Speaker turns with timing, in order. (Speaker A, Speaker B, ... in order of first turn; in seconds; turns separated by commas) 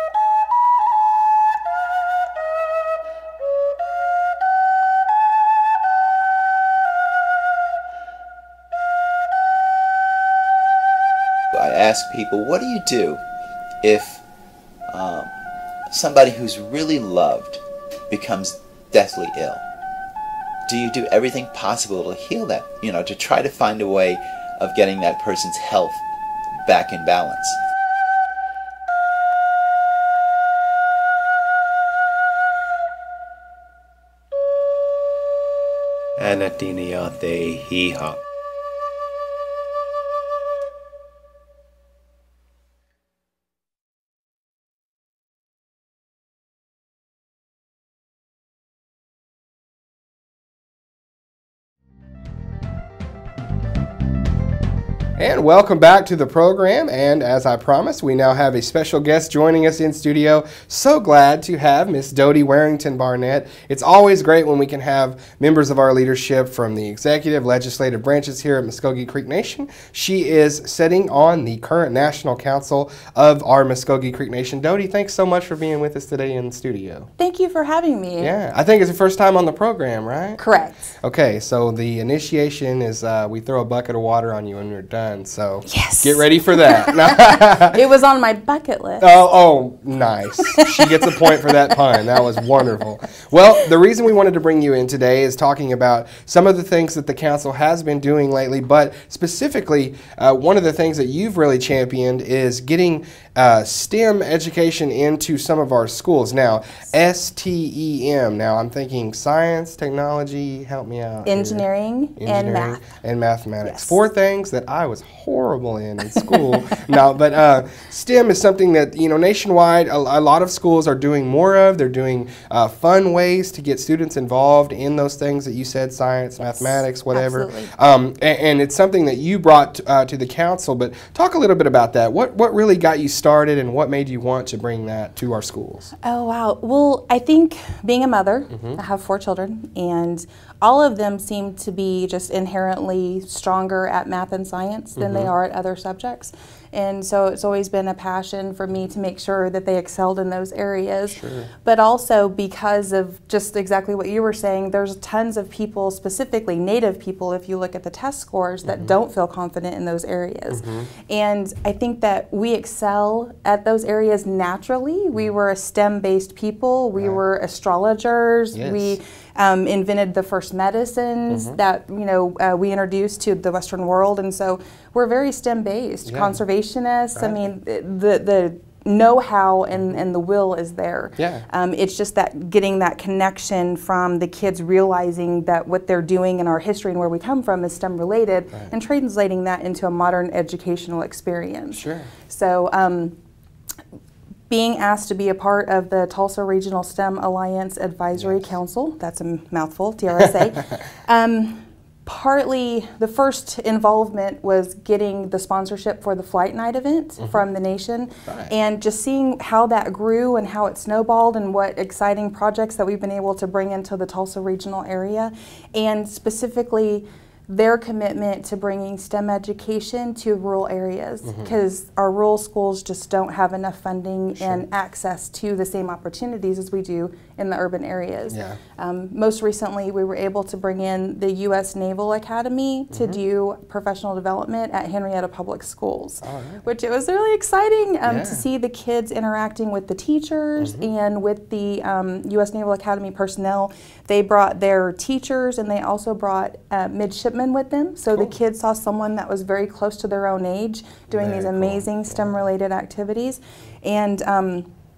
Speaker A: 11.5-13.2, Speaker A: 13.8-14.2, Speaker A: 14.9-15.3, Speaker A: 15.9-19.6, Speaker A: 20.7-26.0, Speaker A: 26.6-27.6, Speaker B: 36.2-38.2, Speaker C: 55.2-77.1, Speaker D: 77.2-78.3, Speaker C: 78.2-80.4, Speaker D: 80.4-80.9, Speaker C: 81.0-87.8, Speaker D: 85.7-87.1, Speaker D: 87.7-89.1, Speaker C: 89.0-111.6, Speaker D: 90.8-91.2, Speaker D: 111.2-112.8, Speaker C: 112.2-135.9, Speaker D: 113.6-114.0, Speaker D: 126.4-127.7, Speaker D: 136.0-193.2, Speaker C: 138.5-138.8, Speaker C: 144.9-145.3, Speaker C: 151.1-151.5, Speaker C: 158.6-158.9, Speaker C: 160.5-160.9, Speaker C: 166.9-167.2, Speaker C: 168.5-169.0, Speaker C: 171.3-171.6, Speaker C: 176.0-176.4, Speaker C: 177.1-177.4, Speaker C: 179.7-180.0, Speaker C: 181.2-181.4, Speaker C: 191.7-192.1, Speaker D: 194.5-254.7, Speaker C: 198.1-198.5, Speaker C: 200.2-200.5, Speaker C: 208.2-208.5, Speaker C: 221.2-221.5, Speaker C: 224.3-224.7, Speaker C: 228.3-228.6, Speaker C: 232.9-233.2, Speaker C: 236.2-236.7, Speaker C: 238.0-238.4, Speaker C: 240.6-240.9, Speaker C: 251.1-252.4